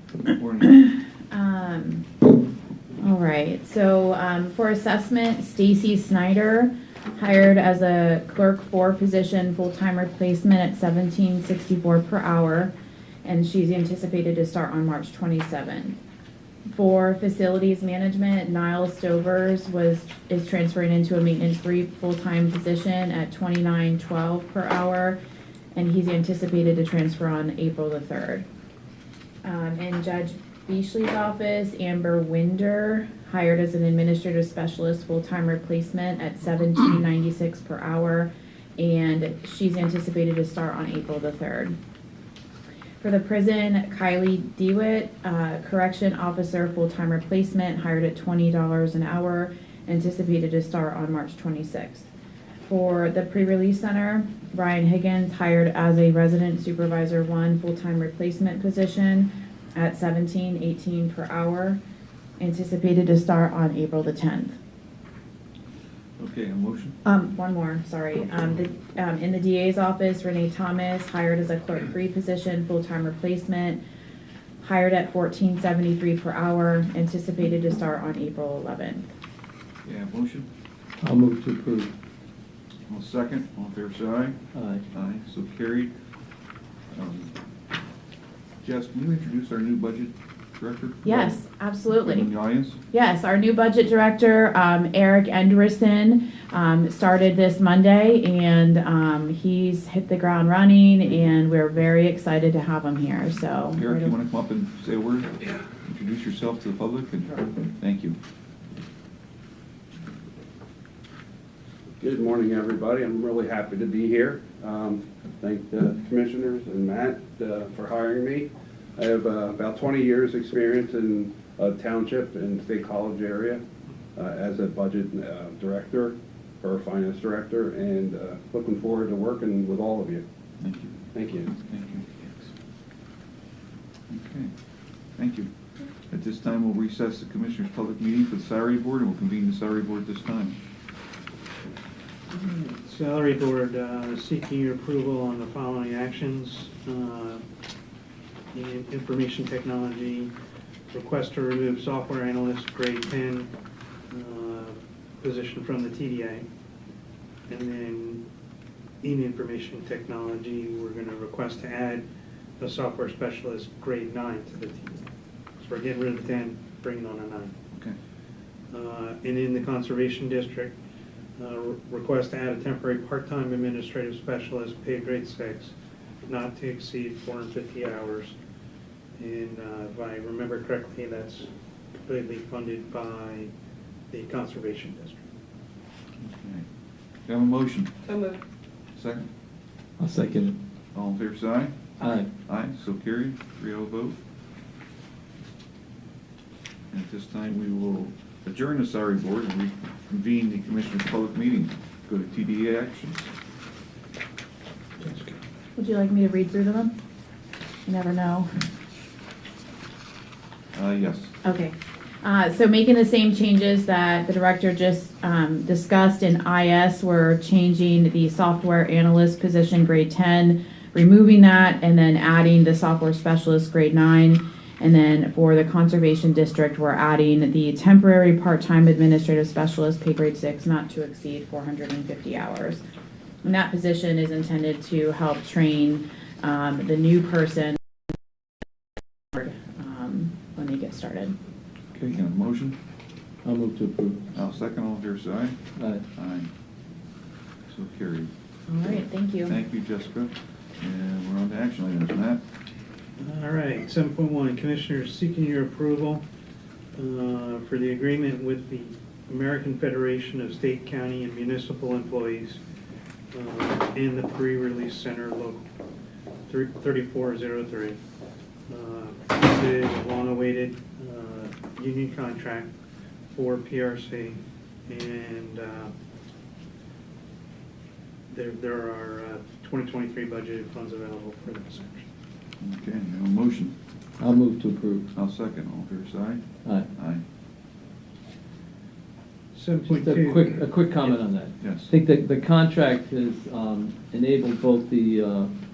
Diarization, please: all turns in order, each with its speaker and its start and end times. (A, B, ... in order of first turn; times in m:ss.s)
0:00.3-0:00.7 A
0:00.7-0:02.1 B
0:03.0-0:12.7 B
0:13.2-0:16.0 B
0:16.7-0:25.2 B
0:25.7-0:28.4 B
0:29.4-0:41.7 B
0:43.0-0:52.1 B
0:52.7-1:01.8 B
1:02.4-1:04.6 B
1:06.2-1:07.0 A
1:07.0-1:13.8 B
1:14.6-1:19.1 B
1:19.8-1:20.5 A
1:21.0-1:21.9 C
1:22.9-1:24.3 A
1:24.5-1:24.8 C
1:24.9-1:25.9 A
1:26.9-1:27.3 A
1:28.6-1:31.3 A
1:31.0-1:32.3 B
1:32.0-1:32.8 A
1:32.9-1:44.1 B
1:43.8-1:48.2 A
1:52.0-2:03.6 D
2:04.1-2:10.2 D
2:10.6-2:12.5 A
2:11.1-2:11.5 D
2:14.1-2:14.5 A
2:15.2-2:15.5 A
2:16.1-2:20.6 A
2:22.3-2:27.4 E
2:28.5-2:30.3 E
2:30.9-2:33.5 E
2:34.1-2:36.4 E
2:37.5-2:38.2 E
2:39.0-2:42.0 E
2:42.6-2:45.0 E
2:45.6-2:47.5 E
2:48.7-2:50.7 E
2:51.4-2:55.7 E
2:56.2-2:58.3 E
2:59.2-3:01.5 E
3:02.0-3:03.5 E
3:04.1-3:05.3 E
3:06.2-3:06.6 A
3:07.3-3:08.0 A
3:08.9-3:09.3 A
3:10.0-3:10.6 C
3:10.9-3:14.2 A
3:12.0-3:12.3 C
3:16.9-3:23.3 A
3:25.0-3:25.4 E
3:25.8-3:26.9 B
3:27.8-3:28.5 B
3:30.7-3:31.3 A
3:31.4-3:52.8 B
3:53.4-3:57.8 B
3:59.3-4:01.4 B
4:01.9-4:02.8 A
4:03.4-4:04.2 C
4:04.3-4:05.5 A
4:05.8-4:06.0 C
4:06.1-4:06.5 A
4:07.7-4:08.3 A
4:08.7-4:09.5 B
4:09.4-4:12.4 A
4:13.2-4:16.2 E
4:16.9-4:22.6 E
4:23.3-4:25.6 E
4:26.5-4:28.0 E
4:28.7-4:32.7 E
4:33.3-4:35.9 E
4:38.3-4:42.1 E
4:42.6-4:43.7 A
4:44.2-4:45.1 C
4:45.1-4:46.4 A
4:47.0-4:47.2 A
4:49.5-4:51.1 E
4:49.9-4:55.5 C
4:51.6-4:51.9 A